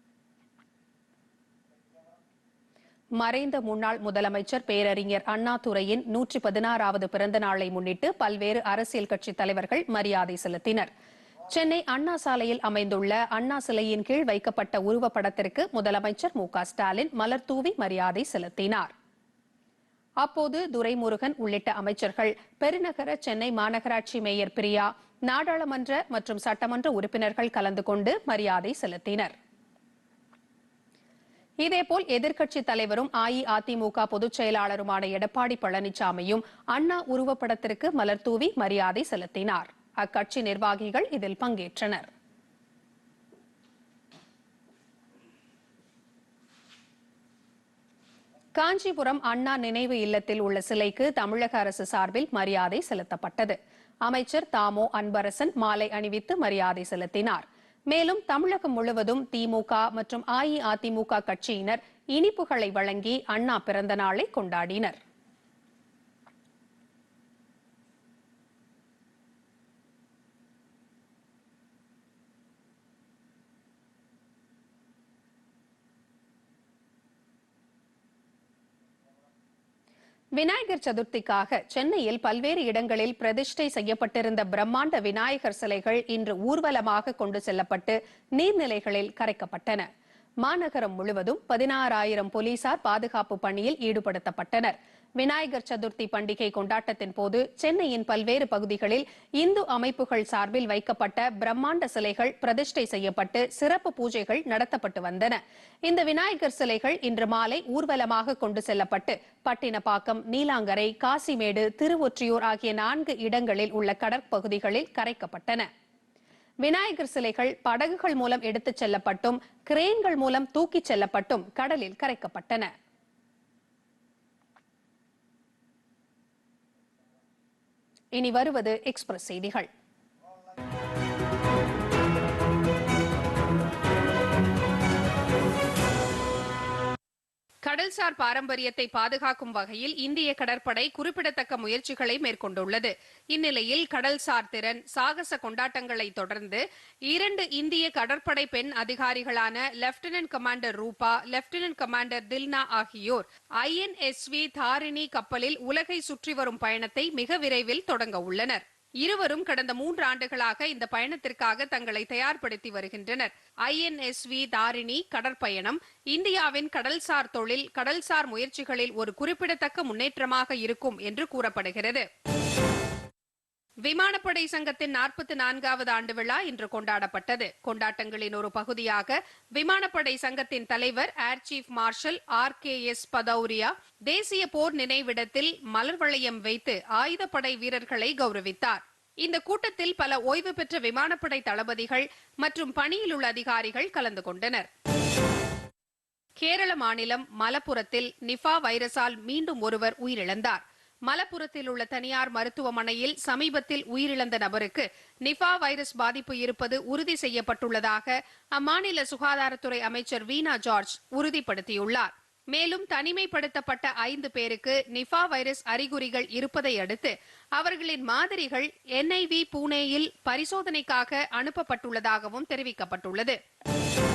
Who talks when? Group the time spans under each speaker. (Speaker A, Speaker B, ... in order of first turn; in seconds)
Speaker A: 3.2-10.9, 11.5-18.9, 20.2-29.3, 31.6-42.1, 48.5-65.0, 80.4-89.9, 90.4-115.7, 116.6-122.7, 128.1-129.7, 137.6-172.1, 173.8-194.7, 196.4-223.4